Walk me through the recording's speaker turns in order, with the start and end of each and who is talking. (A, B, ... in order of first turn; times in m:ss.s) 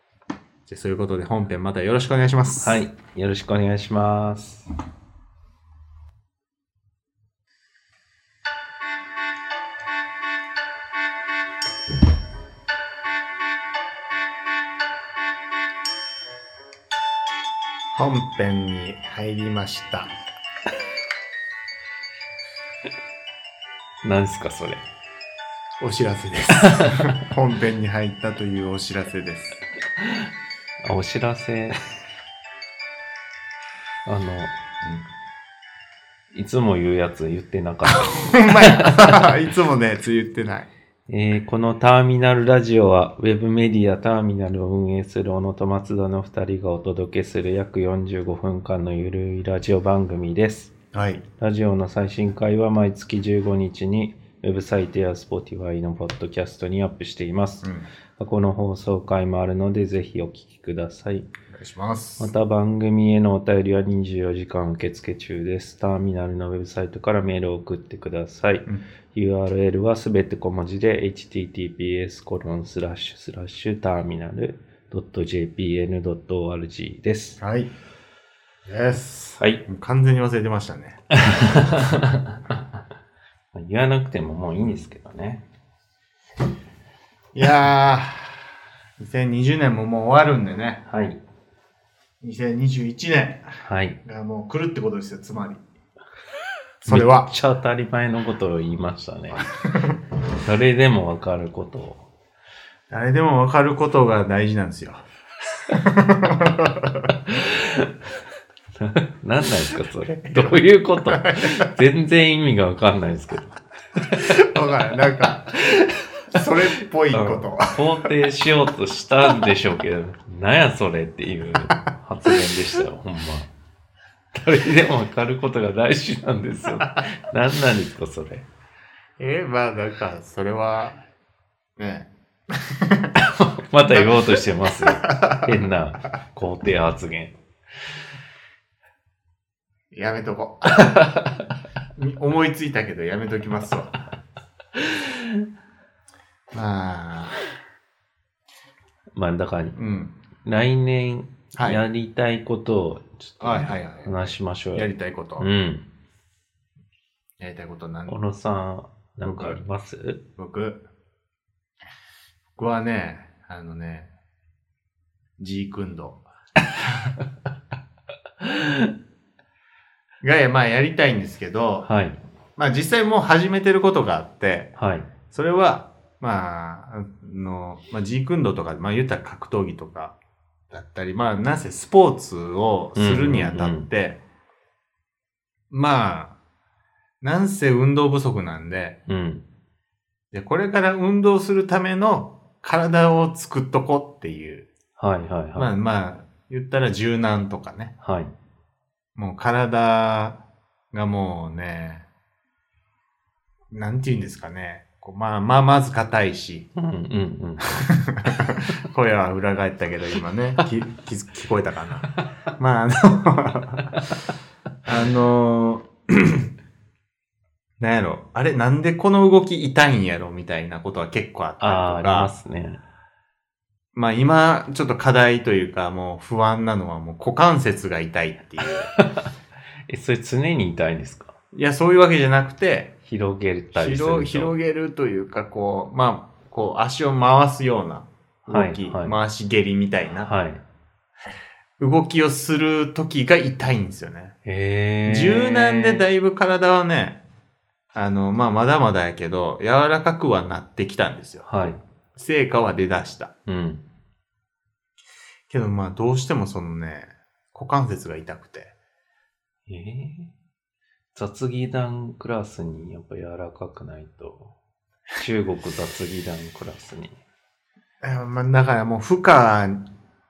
0:00.7-0:02.8 A
0:02.6-0:04.6 B
0:17.9-0:20.1 A
0:24.0-0:24.8 B
0:25.8-0:29.6 A
0:26.7-0:27.1 B
0:30.0-0:30.3 B
0:30.8-0:32.0 B
0:34.0-0:34.5 B
0:34.8-0:35.1 A
0:36.3-0:39.2 B
0:38.1-0:40.7 A
0:41.1-0:50.7 B
0:50.9-0:51.2 A
0:51.4-1:01.3 B
0:57.6-0:57.9 A
1:01.5-1:02.3 A
1:02.2-1:17.4 B
1:17.4-1:17.7 A
1:18.6-1:21.0 A
1:19.4-1:19.6 B
1:21.1-1:22.6 B
1:23.5-1:25.4 B
1:27.3-1:28.4 A
1:29.0-1:30.8 A
1:30.9-1:31.2 B
1:32.2-1:33.5 A
1:33.6-1:34.0 B
1:34.0-1:35.6 A
1:36.8-1:37.3 A
1:36.8-1:39.5 B
1:39.4-1:40.0 A
1:40.4-1:42.0 B
1:42.9-1:45.0 A
1:45.7-1:47.1 A
1:47.2-1:47.9 B
1:48.8-1:54.4 B
1:50.1-1:51.7 A
1:54.1-1:55.6 A
1:56.3-1:57.8 A
1:57.1-2:03.5 B
2:04.3-2:08.5 B
2:09.2-2:11.0 A
2:11.8-2:13.1 A
2:13.1-2:17.4 B
2:13.9-2:15.5 A
2:19.9-2:21.1 A
2:21.0-2:21.4 B
2:22.0-2:24.0 A
2:24.8-2:25.0 B
2:26.5-2:27.4 A
2:29.1-2:29.8 B
2:29.8-2:30.2 A
2:30.4-2:35.9 B
2:31.6-2:31.8 A
2:33.4-2:35.5 A
2:37.4-2:38.2 A
2:38.1-2:40.2 B
2:39.2-2:39.6 A
2:40.4-2:40.8 A
2:42.6-2:44.1 A
2:45.4-2:46.2 A
2:48.4-2:48.9 B
2:50.2-2:51.9 A
2:51.8-2:52.2 B
2:52.6-2:54.8 A
2:54.8-2:55.1 B
2:55.3-3:00.2 A
3:00.7-3:04.2 A
3:02.9-3:03.9 B
3:05.7-3:06.4 A
3:07.2-3:09.0 A
3:09.1-3:09.4 B
3:10.3-3:14.7 A
3:15.0-3:15.7 B
3:15.6-3:17.9 A
3:18.0-3:18.3 B
3:19.1-3:20.4 A
3:20.9-3:22.0 A
3:23.7-3:26.7 A
3:26.8-3:27.9 B
3:27.7-3:34.0 A
3:34.8-3:36.5 A
3:37.8-3:42.3 A
3:41.6-3:42.8 B
3:43.9-3:48.9 A
3:48.9-3:49.3 B
3:49.9-3:51.4 B
3:51.5-3:53.0 A
3:53.0-3:54.5 B
3:53.7-4:00.3 A
3:58.4-3:59.2 B
4:00.2-4:00.6 B
4:01.8-4:04.4 A
4:04.4-4:06.0 B
4:05.0-4:07.2 A
4:07.9-4:11.5 A
4:11.4-4:11.8 B
4:12.1-4:13.3 A
4:13.4-4:13.8 B
4:15.5-4:18.7 A
4:19.7-4:20.3 B
4:21.1-4:24.5 B
4:25.1-4:27.2 B
4:28.0-4:29.9 A